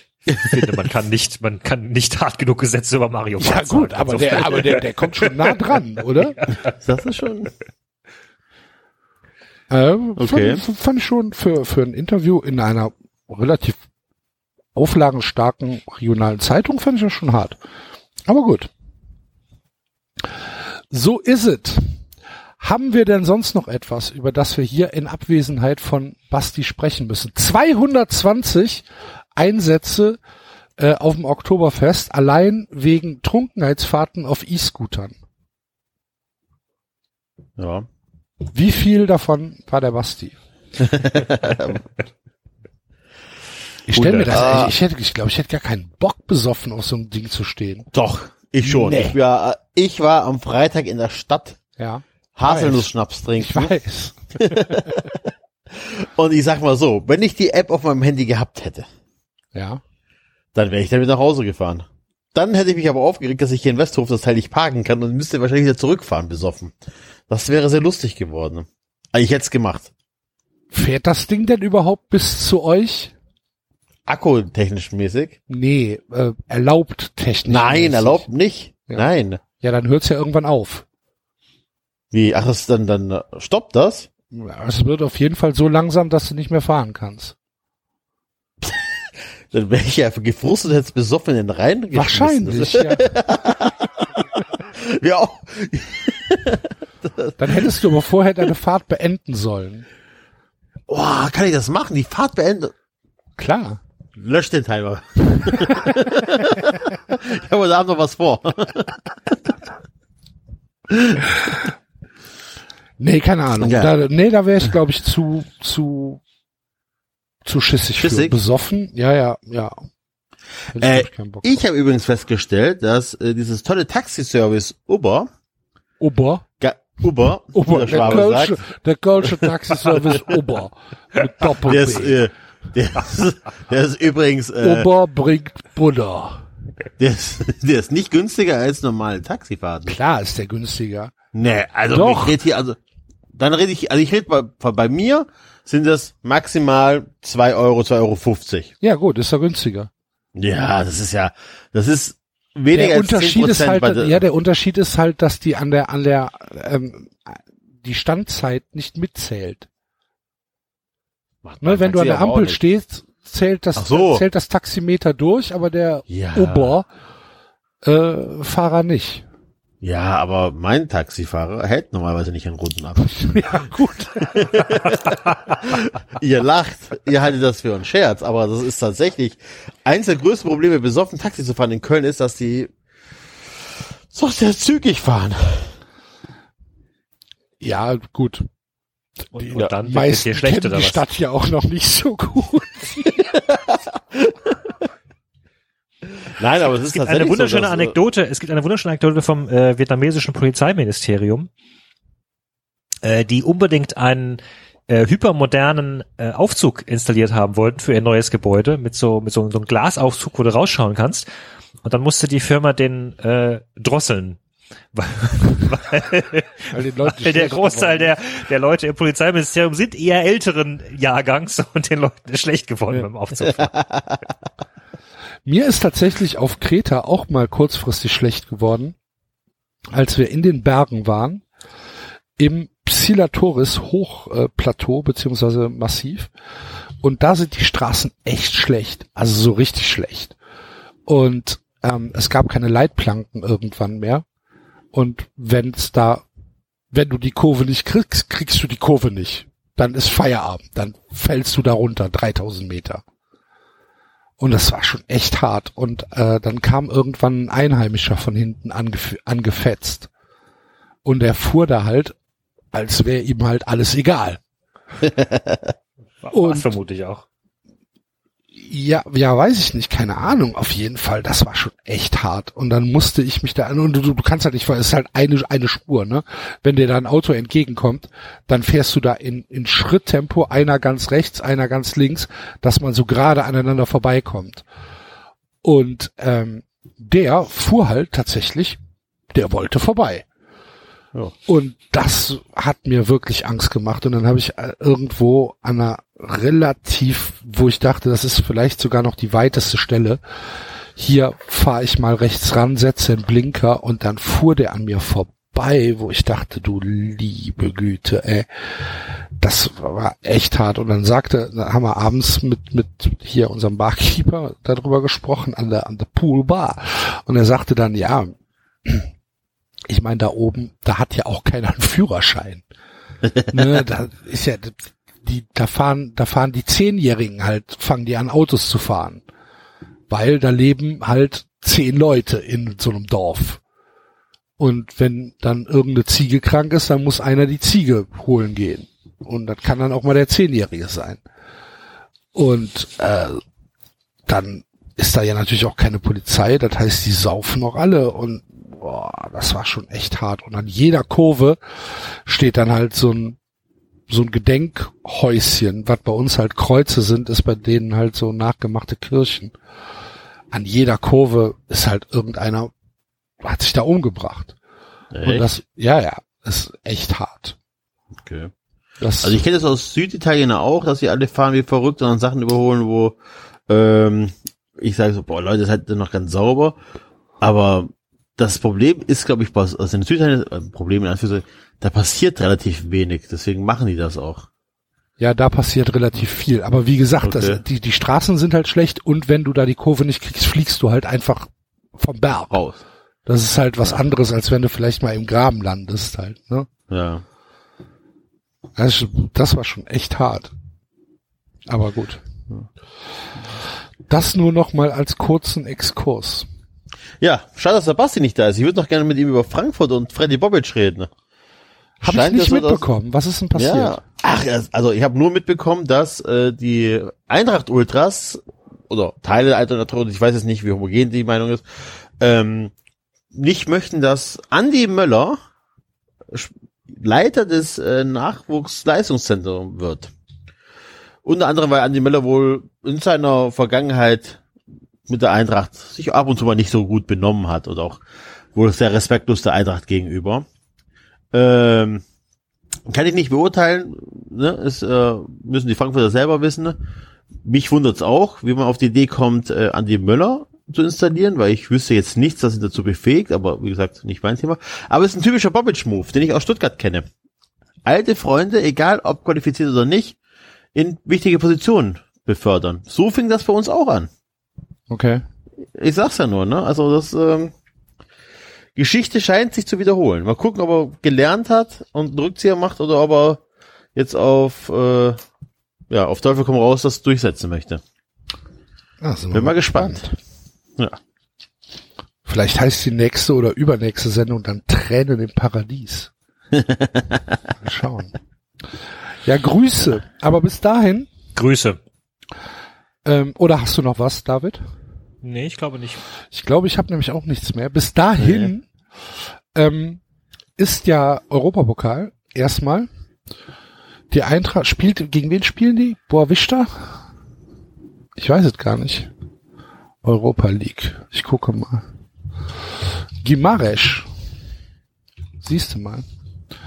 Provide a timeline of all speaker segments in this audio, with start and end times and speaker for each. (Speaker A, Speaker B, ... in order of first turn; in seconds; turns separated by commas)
Speaker A: 0.3-5.5, Speaker B: 3.4-6.4, Speaker A: 6.4-6.7, Speaker C: 6.8-7.5, Speaker B: 9.7-13.8, Speaker C: 10.2-10.6, Speaker B: 14.7-17.6, Speaker B: 18.3-18.7, Speaker B: 20.2-22.0, Speaker B: 22.6-30.2, Speaker B: 30.8-35.2, Speaker C: 37.6-37.9, Speaker B: 38.5-40.4, Speaker C: 40.8-41.9, Speaker B: 43.9-47.9, Speaker C: 43.9-44.7, Speaker C: 47.9-51.6, Speaker B: 48.6-49.2, Speaker B: 51.8-54.8, Speaker C: 52.4-53.7, Speaker C: 54.4-55.1, Speaker C: 55.7-58.9, Speaker B: 59.5-59.8, Speaker C: 60.5-66.7, Speaker C: 67.3-69.9, Speaker B: 70.7-73.1, Speaker C: 74.1-75.4, Speaker B: 75.5-78.3, Speaker C: 77.5-79.4, Speaker B: 79.6-80.9, Speaker C: 82.1-84.1, Speaker B: 84.3-87.3, Speaker C: 88.6-88.9, Speaker C: 89.5-97.8, Speaker B: 91.9-93.0, Speaker B: 97.4-99.9, Speaker C: 100.9-102.7, Speaker B: 103.4-103.8, Speaker C: 104.2-109.3, Speaker C: 110.9-111.4, Speaker B: 113.0-116.2, Speaker C: 113.6-113.9, Speaker B: 117.5-119.8, Speaker C: 118.0-118.4, Speaker B: 120.7-121.6, Speaker C: 120.8-125.3, Speaker B: 126.0-126.5, Speaker C: 126.6-128.7, Speaker B: 127.5-132.2, Speaker C: 131.6-134.9, Speaker B: 134.6-136.4, Speaker C: 137.0-140.0, Speaker B: 139.9-141.1, Speaker C: 141.3-142.8, Speaker B: 141.9-142.4, Speaker C: 143.3-148.7, Speaker B: 148.8-149.9, Speaker C: 150.3-154.2, Speaker B: 152.7-159.7, Speaker C: 161.4-162.6, Speaker B: 161.6-166.9, Speaker C: 163.8-164.2, Speaker C: 166.1-166.8, Speaker B: 167.8-169.2, Speaker C: 169.8-173.3, Speaker B: 173.0-174.7, Speaker C: 174.2-175.0, Speaker A: 175.1-175.5, Speaker C: 175.6-182.7, Speaker C: 184.1-185.8, Speaker B: 187.6-188.5, Speaker A: 189.3-191.0, Speaker B: 189.4-193.2, Speaker C: 193.3-194.6, Speaker C: 196.2-197.9, Speaker A: 196.9-201.5, Speaker A: 203.0-211.3, Speaker A: 211.8-214.4, Speaker A: 214.9-223.8, Speaker B: 216.7-218.2, Speaker B: 225.4-228.9, Speaker B: 229.9-231.4, Speaker B: 232.4-236.3, Speaker B: 237.0-240.3, Speaker B: 241.1-244.2, Speaker B: 244.9-246.2, Speaker B: 246.9-253.0, Speaker B: 254.4-260.1, Speaker B: 261.0-262.2, Speaker B: 262.7-264.4, Speaker A: 266.2-267.2, Speaker B: 266.3-266.7, Speaker B: 268.6-284.6, Speaker B: 285.6-288.8, Speaker B: 289.3-290.3, Speaker B: 291.5-300.2, Speaker B: 300.9-319.1, Speaker B: 319.9-322.6, Speaker B: 323.5-329.2, Speaker B: 330.1-333.6, Speaker B: 334.6-341.2, Speaker B: 342.3-343.4, Speaker B: 344.3-353.4, Speaker B: 354.1-359.6, Speaker B: 360.5-362.7, Speaker B: 363.4-364.6, Speaker C: 365.1-365.4, Speaker B: 365.2-367.6, Speaker C: 368.2-368.5, Speaker B: 369.0-369.4, Speaker C: 369.2-373.2, Speaker C: 373.7-376.8, Speaker C: 377.4-384.5, Speaker B: 385.2-392.6, Speaker C: 387.2-387.6, Speaker C: 392.5-392.8, Speaker B: 393.3-396.7, Speaker C: 396.9-397.2, Speaker B: 398.8-400.5, Speaker B: 401.7-402.2, Speaker B: 404.1-406.5, Speaker C: 407.2-411.1, Speaker B: 412.0-414.0, Speaker C: 412.0-412.9, Speaker C: 413.6-422.7, Speaker C: 423.3-425.4, Speaker C: 426.3-430.1, Speaker C: 431.2-434.4, Speaker C: 435.1-438.0, Speaker C: 438.6-440.4, Speaker C: 441.3-442.0, Speaker C: 442.9-446.8, Speaker C: 447.4-457.1, Speaker C: 457.9-460.2, Speaker C: 460.7-464.1, Speaker B: 464.9-465.2, Speaker C: 465.7-467.5, Speaker C: 468.8-473.4, Speaker C: 473.9-475.2, Speaker C: 475.9-477.8, Speaker B: 479.0-480.1, Speaker C: 479.3-480.0, Speaker B: 482.2-486.1, Speaker C: 486.6-487.2, Speaker B: 487.6-488.1, Speaker B: 489.2-491.1, Speaker A: 491.4-491.8, Speaker B: 493.1-494.6, Speaker A: 495.2-496.0, Speaker B: 496.3-498.7, Speaker B: 499.5-500.0, Speaker B: 500.6-502.9, Speaker B: 504.1-507.0, Speaker B: 508.2-509.1, Speaker B: 510.0-511.9, Speaker B: 513.2-514.1, Speaker B: 515.4-516.1